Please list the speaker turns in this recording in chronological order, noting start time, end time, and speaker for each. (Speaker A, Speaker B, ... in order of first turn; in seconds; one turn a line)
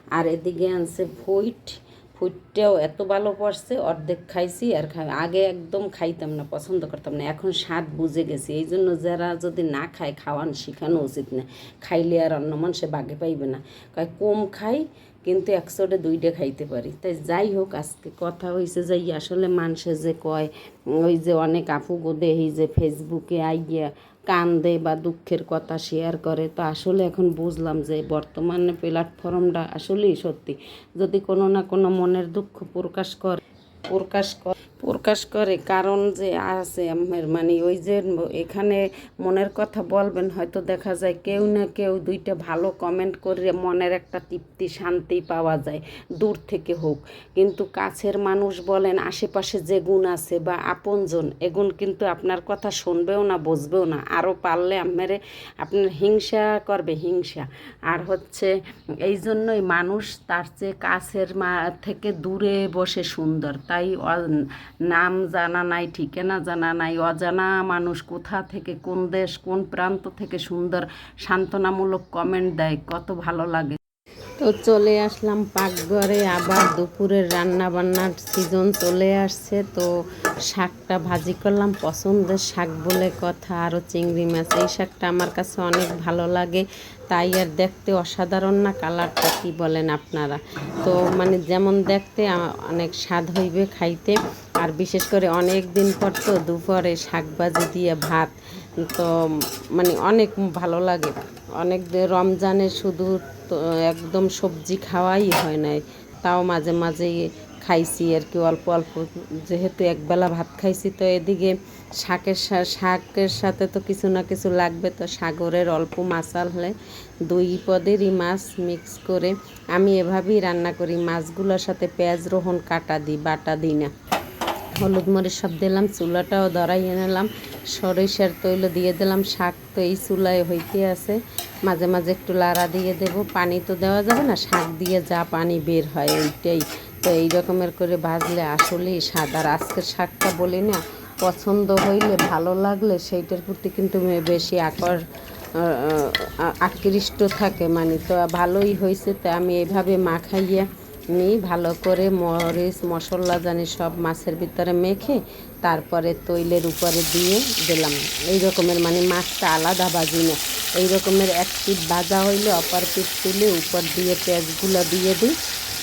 Speaker A: 0.1-73.8
Speaker A: 74.4-79.9
Speaker A: 80.5-116.8
Speaker A: 117.3-123.9
Speaker A: 124.8-145.0
Speaker A: 145.6-165.3